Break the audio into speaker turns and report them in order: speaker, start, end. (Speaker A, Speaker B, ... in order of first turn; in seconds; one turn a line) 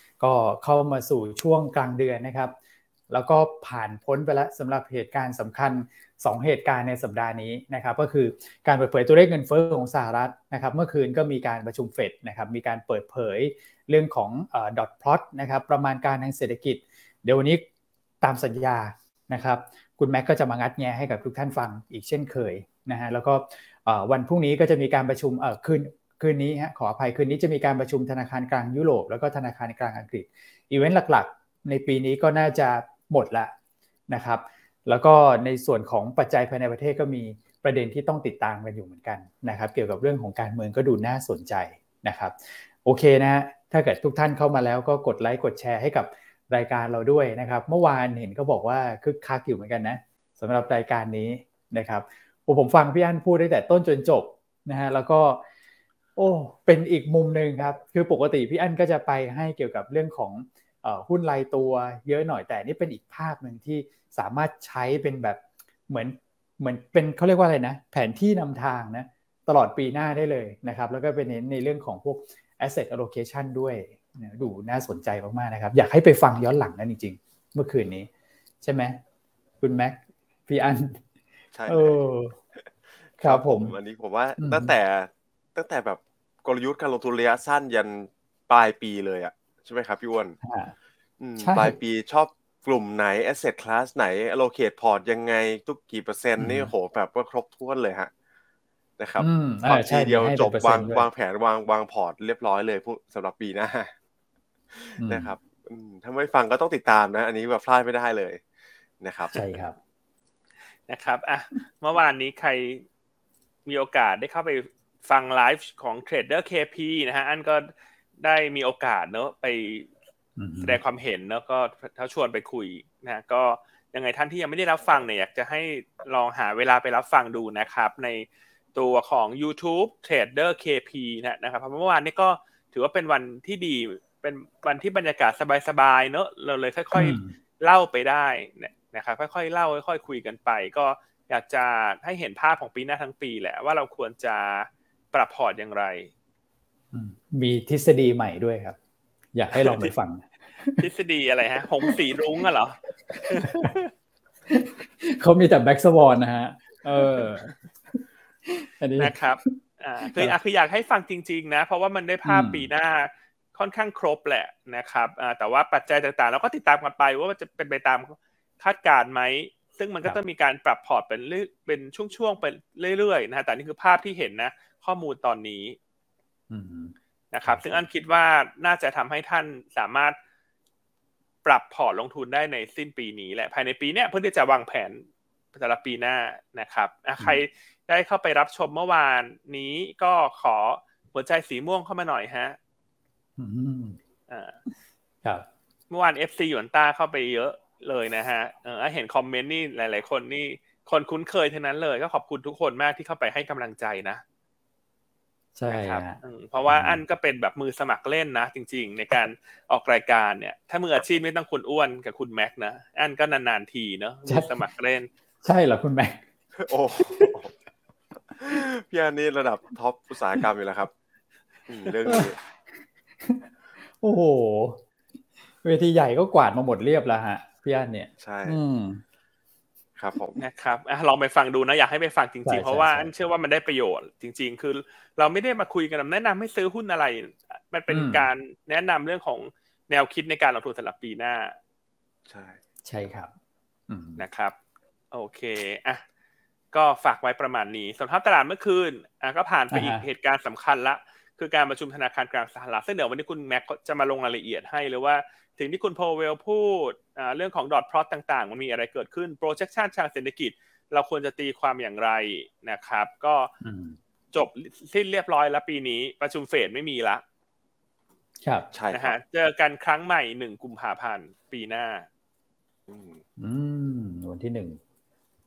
Speaker A: 0.2-2.5
Speaker A: 3.1-17.6
Speaker A: 18.2-33.5
Speaker A: 34.1-55.4
Speaker A: 56.1-78.1
Speaker A: 78.6-79.0
Speaker A: 79.6-81.0
Speaker B: 81.5-82.0
Speaker A: 81.7-82.4
Speaker B: 82.5-90.4
Speaker A: 83.2-83.8
Speaker A: 84.4-84.7
Speaker A: 90.4-90.7
Speaker B: 91.2-98.1
Speaker A: 91.4-91.8
Speaker A: 96.4-96.7
Speaker B: 99.0-103.9
Speaker A: 99.2-101.0
Speaker B: 104.7-108.4
Speaker A: 105.0-105.3
Speaker B: 109.0-109.3
Speaker A: 109.3-109.8
Speaker C: 110.9-112.8
Speaker C: 113.7-119.9
Speaker A: 120.4-120.8
Speaker C: 120.6-146.1
Speaker A: 136.9-137.3
Speaker A: 146.9-148.8
Speaker A: 149.3-150.8
Speaker C: 149.5-149.9
Speaker C: 150.8-153.9
Speaker A: 153.1-153.7
Speaker A: 154.5-160.3
Speaker C: 159.0-175.8
Speaker A: 162.2-162.7
Speaker A: 176.5-177.8
Speaker C: 177.3-180.2
Speaker C: 181.4-192.6
Speaker A: 193.4-194.0
Speaker C: 194.3-194.6
Speaker C: 195.9-204.2
Speaker A: 205.6-207.0
Speaker C: 205.7-215.1
Speaker A: 214.2-214.5
Speaker A: 215.4-216.2
Speaker B: 216.6-217.5
Speaker A: 217.0-217.3
Speaker B: 218.4-220.9
Speaker B: 221.7-222.4
Speaker A: 222.1-222.3
Speaker A: 224.0-224.8
Speaker A: 225.6-229.0
Speaker B: 228.2-228.6
Speaker B: 230.0-230.4
Speaker C: 230.4-241.6
Speaker A: 232.5-233.1
Speaker A: 237.9-238.3
Speaker B: 242.3-242.6
Speaker A: 242.8-243.3
Speaker A: 243.9-244.2
Speaker C: 244.2-244.5
Speaker C: 245.1-246.0
Speaker C: 246.7-263.5
Speaker A: 249.7-250.0
Speaker A: 263.6-264.0
Speaker C: 264.3-267.2
Speaker A: 268.4-268.7
Speaker B: 268.7-269.1
Speaker C: 268.9-272.1
Speaker B: 272.9-273.2
Speaker A: 273.4-274.8